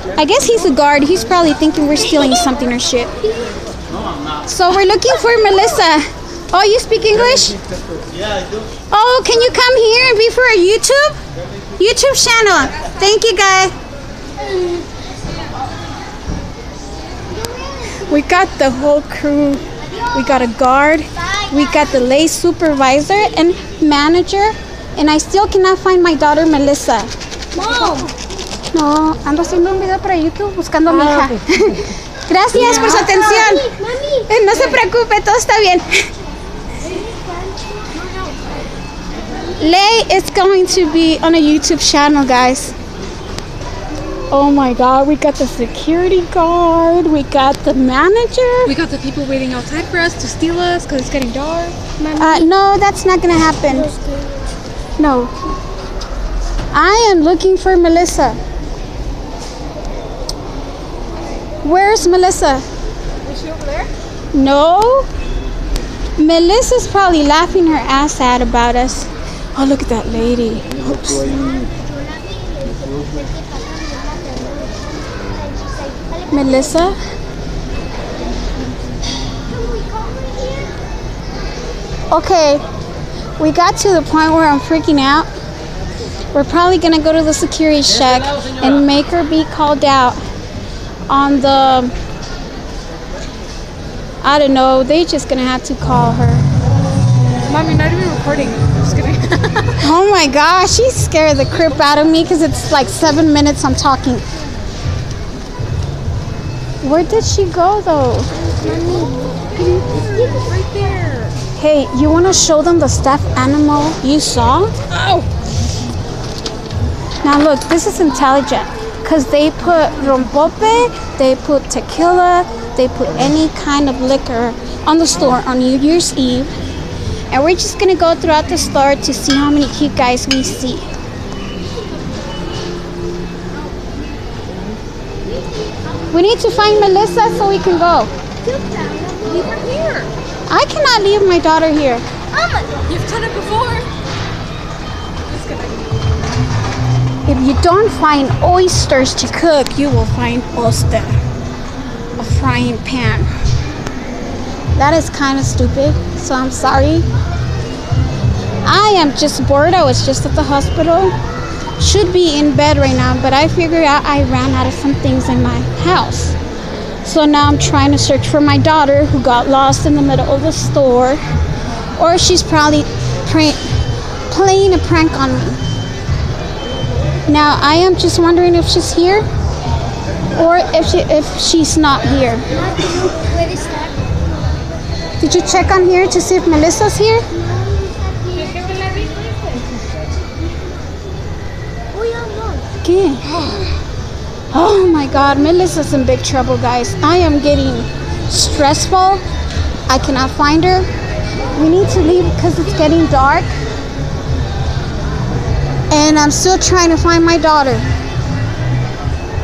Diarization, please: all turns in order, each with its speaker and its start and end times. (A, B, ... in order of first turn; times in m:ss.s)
0:00.2-0:03.2 A
0:04.5-0:07.6 A
0:08.9-0:11.2 A
0:11.8-0:13.7 A
0:17.3-0:18.0 B
0:18.0-0:27.1 A
0:27.6-0:28.1 B
0:27.7-0:28.1 C
0:28.7-0:33.7 A
0:31.0-0:31.3 C
0:32.6-0:33.0 C
0:33.0-0:34.3 B
0:34.3-0:36.1 A
0:37.2-0:37.7 B
0:39.6-0:42.7 A
0:44.3-0:48.7 A
0:48.6-0:52.4 C
0:52.2-0:54.0 A
0:55.0-0:55.3 A
0:56.7-0:58.4 A
1:01.6-1:02.6 A
1:03.3-1:03.9 C
1:04.3-1:05.1 A
1:06.2-1:11.4 A
1:11.3-1:16.5 B
1:16.3-1:17.0 A
1:19.5-1:20.8 B
1:22.1-1:22.6 A
1:23.4-1:25.3 A
1:26.3-1:30.2 A
1:31.1-1:31.9 A
1:34.2-1:36.4 A
1:37.5-1:39.8 C
1:39.8-1:44.2 A
1:46.8-1:48.3 A
1:48.6-1:49.3 B
1:48.8-1:51.4 C
1:51.6-1:54.7 A
1:54.9-1:55.3 C
1:57.2-2:06.5 A
2:07.3-2:10.9 A
2:16.1-2:18.1 A
2:18.4-2:19.4 B
2:19.2-2:20.1 C
2:20.5-2:22.0 A
2:22.3-2:22.8 B
2:22.9-2:23.9 C
2:25.3-2:25.9 C
2:27.3-2:31.2 A
2:32.2-2:33.3 A
2:34.8-2:37.1 A
2:38.6-2:41.2 A
2:41.8-2:46.4 A
2:47.0-2:51.2 A
2:52.0-2:53.7 A
2:54.3-2:55.6 A
2:57.3-2:59.2 A
3:00.3-3:02.4 A
3:02.6-3:04.2 B
3:05.2-3:07.2 A
3:07.4-3:09.2 B
3:08.4-3:09.6 C
3:11.9-3:12.7 B
3:12.8-3:13.4 A
3:13.3-3:13.7 C
3:14.5-3:19.2 A
3:19.9-3:20.9 A
3:21.5-3:23.5 A
3:25.9-3:27.9 A